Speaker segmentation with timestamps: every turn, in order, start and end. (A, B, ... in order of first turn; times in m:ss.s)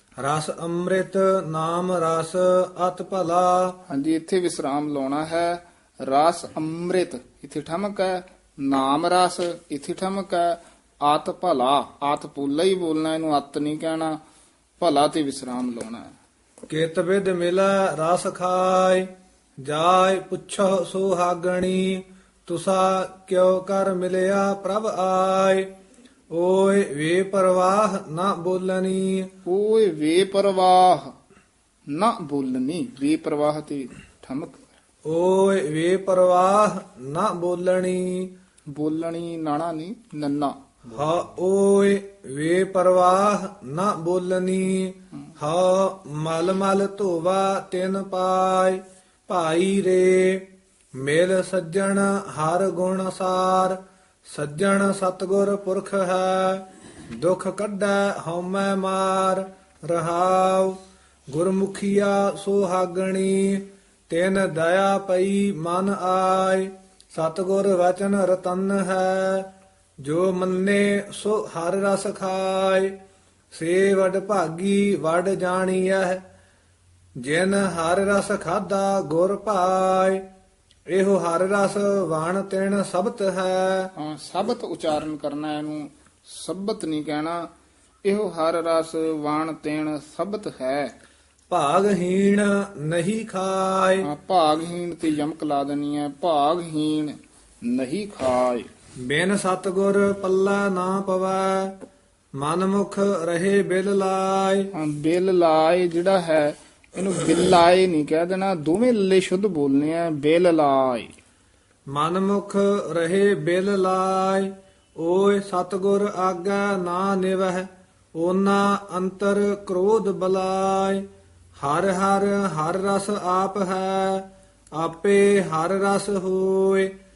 0:00.2-0:03.8 A
0:03.9-0:14.2 B
0:14.8-0:16.1 B
0:16.7-0:19.1 A
0:19.6-0:25.7 A
0:26.3-0:29.3 A
0:29.5-0:31.1 B
0:31.9-0:34.6 B
0:35.1-0:38.3 A
0:38.7-0:40.6 B
0:40.9-0:50.4 A
0:51.0-1:00.8 A
1:01.3-1:09.5 A
1:10.0-1:12.9 A
1:13.5-1:16.2 A
1:17.2-1:20.2 A
1:20.9-1:23.9 A
1:24.0-1:27.5 B
1:28.0-1:30.9 B
1:31.5-1:34.1 A
1:34.0-1:38.7 B
1:39.0-1:41.8 A
1:42.4-1:44.7 A
1:44.8-1:51.1 B
1:51.9-2:01.0 A
2:01.6-2:06.9 A